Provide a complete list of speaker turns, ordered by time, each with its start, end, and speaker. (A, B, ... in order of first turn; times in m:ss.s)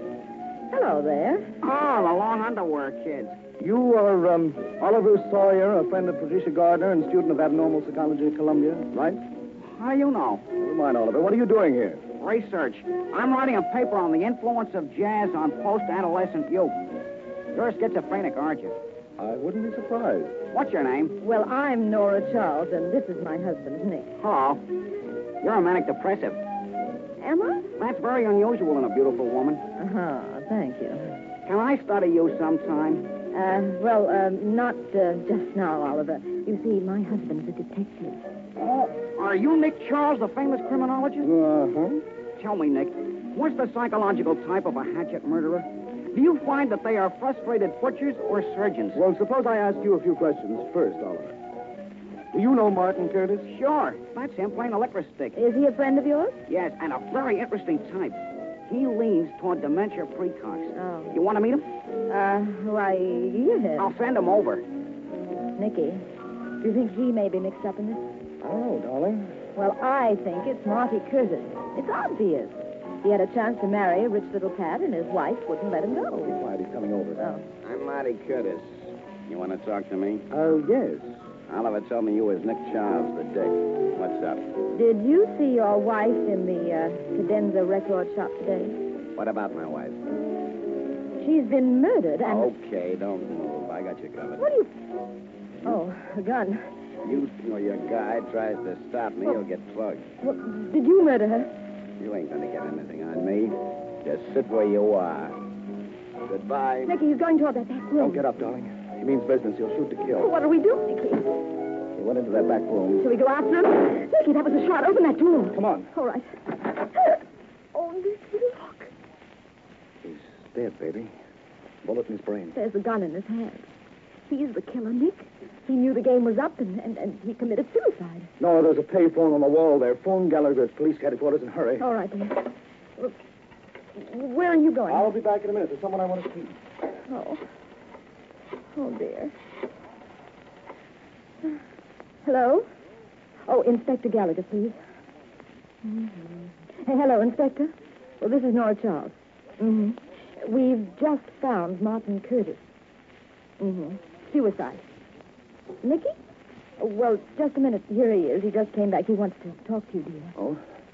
0:00.7-0:01.5 A
0:01.6-0:03.4 B
0:03.6-0:09.2 C
0:09.7-0:10.5 B
0:10.6-0:12.0 C
0:12.2-0:16.8 B
0:17.5-0:18.8 B
0:19.2-0:20.3 C
0:20.5-0:21.1 B
0:21.2-0:24.1 A
0:24.2-0:24.6 B
0:25.4-0:26.4 B
0:27.2-0:27.6 A
0:27.8-0:29.6 B
0:29.8-0:31.1 A
0:31.4-0:33.1 B
0:33.3-0:38.2 A
0:38.6-0:41.3 B
0:41.2-0:42.0 C
0:42.4-0:49.0 B
0:48.9-0:51.4 C
0:52.3-0:53.5 C
0:53.4-0:55.4 B
0:55.3-0:56.4 A
0:56.5-1:01.7 B
1:00.7-1:01.1 A
1:02.1-1:03.9 A
1:03.8-1:04.6 B
1:05.6-1:06.0 A
1:06.6-1:08.1 A
1:08.4-1:09.3 C
1:09.6-1:16.4 A
1:16.2-1:17.2 C
1:17.2-1:17.4 A
1:17.6-1:20.3 D
1:20.3-1:21.1 C
1:21.5-1:24.4 D
1:24.7-1:28.8 A
1:29.1-1:30.0 D
1:31.2-1:32.5 A
1:32.2-1:34.4 D
1:34.4-1:34.7 A
1:35.6-1:36.6 A
1:37.0-1:40.1 D
1:40.2-1:41.5 A
1:42.0-1:45.4 D
1:46.2-1:46.9 D
1:46.8-1:48.2 A
1:48.0-1:50.3 C
1:50.2-1:51.3 A
1:51.9-1:53.0 C
1:53.0-1:57.1 A
1:55.5-1:55.9 C
1:57.8-1:58.8 E
2:00.0-2:01.1 C
2:01.8-2:02.5 C
2:02.5-2:03.7 A
2:04.3-2:05.2 E
2:05.6-2:08.3 A
2:08.4-2:11.8 C
2:11.8-2:13.2 A
2:14.0-2:15.1 A
2:14.9-2:16.6 C
2:17.1-2:17.4 A
2:18.7-2:19.3 A
2:22.2-2:22.7 A
2:23.5-2:24.8 A
2:25.8-2:32.6 A
2:33.6-2:34.8 A
2:35.8-2:36.2 A
2:36.8-2:40.3 A
2:40.4-2:40.6 C